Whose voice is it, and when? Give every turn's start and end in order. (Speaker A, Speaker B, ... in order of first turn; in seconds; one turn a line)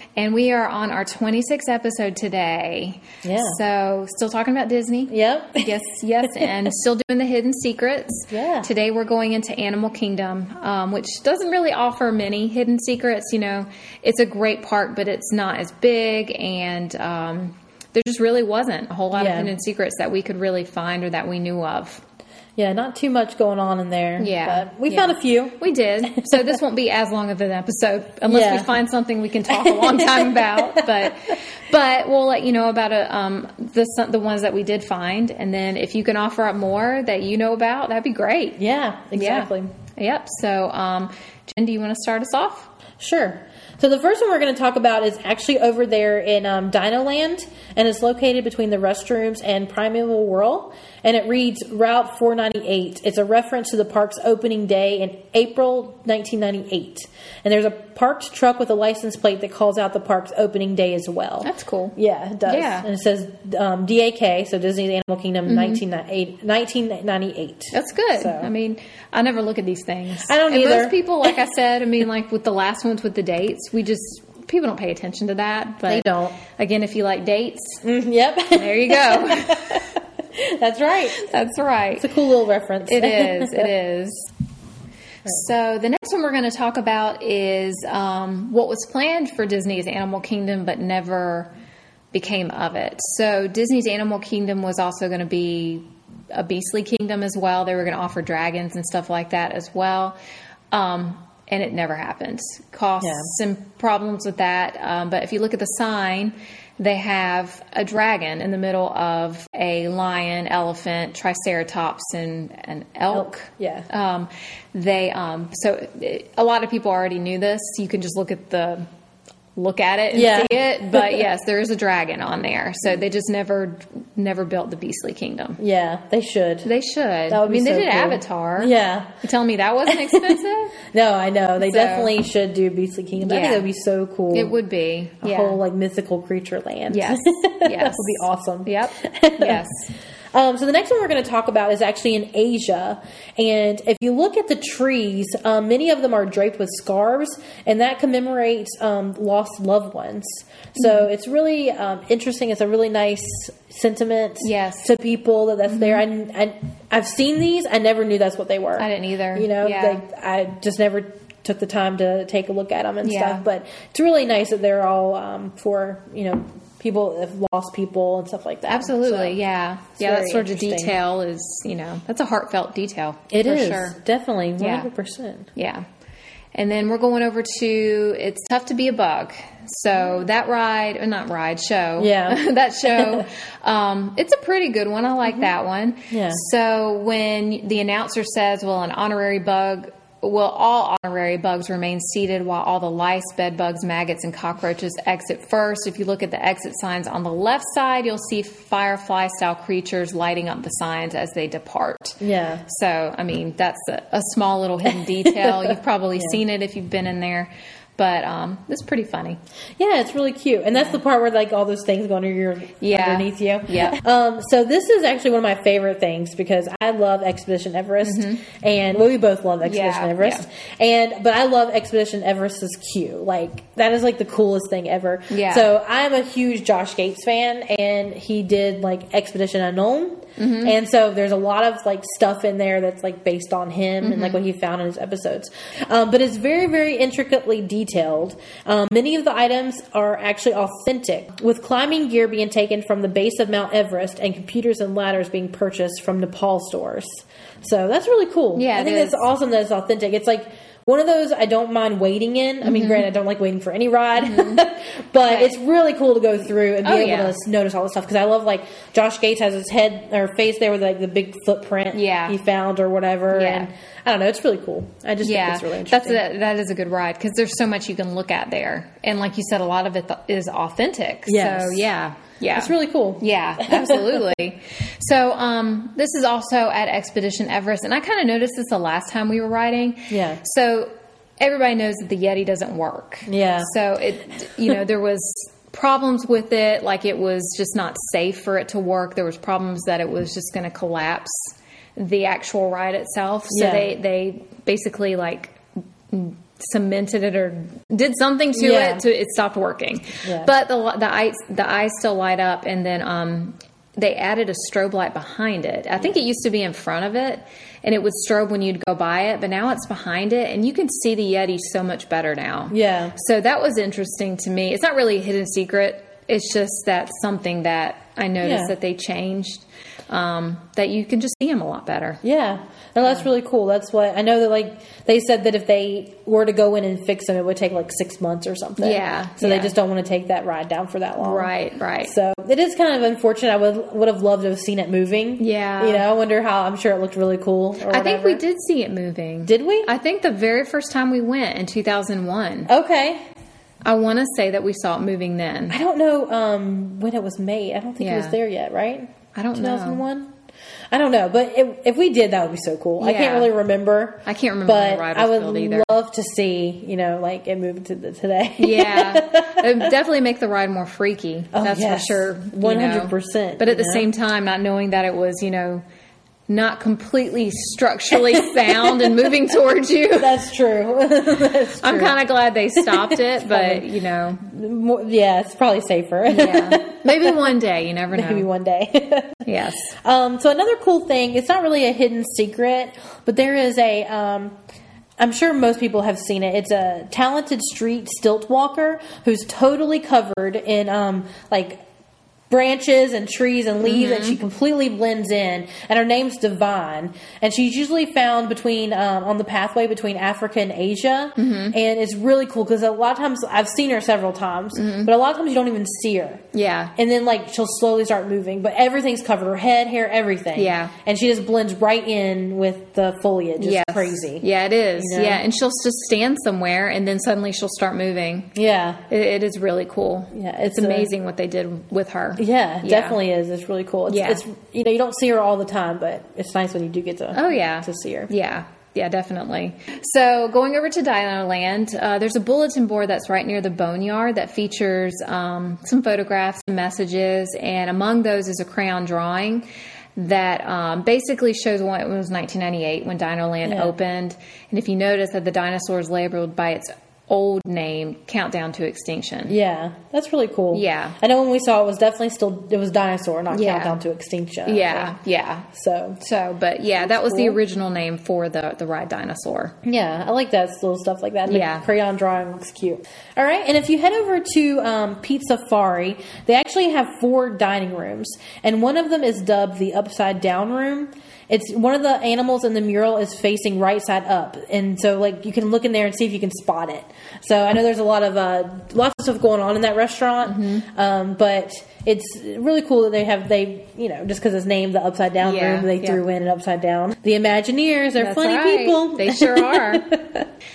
Speaker A: 0.1-22.0
Speaker B: 3.2-3.6
Speaker B: 5.1-5.7
Speaker B: 8.3-8.7
Speaker B: 19.1-19.5
Speaker B: 22.6-26.6
Speaker A: 24.2-38.6
Speaker B: 28.3-28.8
Speaker B: 29.5-31.1
Speaker B: 38.6-39.7
Speaker A: 39.1-42.7
Speaker B: 43.0-68.5
Speaker A: 61.4-61.9
Speaker A: 62.5-62.9
Speaker A: 65.5-65.8
Speaker A: 67.7-77.8
Speaker B: 70.2-71.4
Speaker B: 75.8-76.4
Speaker B: 77.8-81.2
Speaker A: 78.5-79.9
Speaker A: 81.2-82.1
Speaker B: 82.0-83.7
Speaker A: 82.8-84.3
Speaker A: 85.2-91.5
Speaker A: 92.1-100.2
Speaker A: 100.7-118.8
Speaker B: 103.0-103.3
Speaker B: 113.1-113.9
Speaker A: 119.5-125.6
Speaker B: 120.1-121.3
Speaker B: 125.6-126.7
Speaker A: 126.6-130.8
Speaker B: 127.3-129.1
Speaker B: 129.9-130.4
Speaker B: 130.9-134.5
Speaker A: 131.6-132.1
Speaker A: 133.2-133.7
Speaker A: 134.3-135.6
Speaker B: 135.2-139.6
Speaker A: 136.9-139.9
Speaker B: 140.3-169.4
Speaker A: 150.8-151.1
Speaker A: 154.4-154.9
Speaker A: 155.7-156.1
Speaker A: 158.8-160.0
Speaker A: 163.0-163.4
Speaker A: 168.7-174.0
Speaker B: 170.0-171.0
Speaker B: 173.3-175.5
Speaker A: 174.6-174.9
Speaker A: 175.6-175.8
Speaker A: 176.5-209.4
Speaker B: 182.0-182.4
Speaker B: 183.0-183.2
Speaker B: 186.1-186.4
Speaker B: 202.2-202.6
Speaker B: 204.9-206.4
Speaker B: 209.8-266.2
Speaker A: 212.8-214.0
Speaker A: 218.0-218.4
Speaker A: 219.6-220.4
Speaker A: 225.3-225.7
Speaker A: 230.4-230.8
Speaker A: 234.0-234.4
Speaker A: 248.6-249.2
Speaker A: 252.6-253.1
Speaker A: 254.2-254.6
Speaker A: 255.2-255.6
Speaker A: 256.8-257.3
Speaker A: 261.9-262.4
Speaker A: 263.3-263.7
Speaker A: 265.2-322.2
Speaker B: 271.3-271.9
Speaker B: 272.5-274.2
Speaker B: 280.1-280.4
Speaker B: 283.3-283.7
Speaker B: 293.5-293.9
Speaker B: 298.5-299.0
Speaker B: 300.2-300.5
Speaker B: 312.7-313.1
Speaker B: 318.4-318.7
Speaker B: 322.2-338.4
Speaker A: 328.8-329.7
Speaker A: 331.2-332.1
Speaker A: 335.4-336.1
Speaker A: 337.9-342.7
Speaker B: 339.4-339.9
Speaker B: 342.7-343.2
Speaker A: 343.8-345.8
Speaker B: 345.7-350.3
Speaker A: 348.0-348.4
Speaker A: 349.3-350.0
Speaker B: 350.9-359.9
Speaker A: 353.0-353.5
Speaker A: 354.2-355.9
Speaker A: 358.6-365.8
Speaker B: 361.5-364.1
Speaker A: 366.5-370.4
Speaker B: 368.5-369.2
Speaker B: 370.2-372.2
Speaker A: 371.8-374.4
Speaker B: 372.7-373.9
Speaker B: 374.4-377.6
Speaker A: 376.3-378.5
Speaker B: 378.1-379.4
Speaker A: 379.4-379.9
Speaker B: 380.0-384.6
Speaker B: 385.2-391.8
Speaker B: 392.5-406.4
Speaker A: 393.8-394.4
Speaker A: 401.4-401.8
Speaker A: 404.7-405.1
Speaker A: 406.5-406.9
Speaker B: 406.9-415.4
Speaker A: 410.6-410.9
Speaker A: 413.6-418.5
Speaker B: 418.5-419.0
Speaker A: 419.1-423.2
Speaker B: 420.3-421.1
Speaker B: 422.4-428.3
Speaker A: 424.1-424.4
Speaker A: 427.3-449.6
Speaker B: 443.6-443.9
Speaker B: 449.5-455.1
Speaker A: 450.7-451.2
Speaker A: 453.5-453.9
Speaker A: 454.6-455.7
Speaker B: 455.7-456.2
Speaker A: 456.2-459.7
Speaker B: 457.0-457.6
Speaker B: 459.8-490.4
Speaker A: 461.5-461.9
Speaker A: 480.4-480.9
Speaker A: 485.4-486.2
Speaker A: 488.2-490.1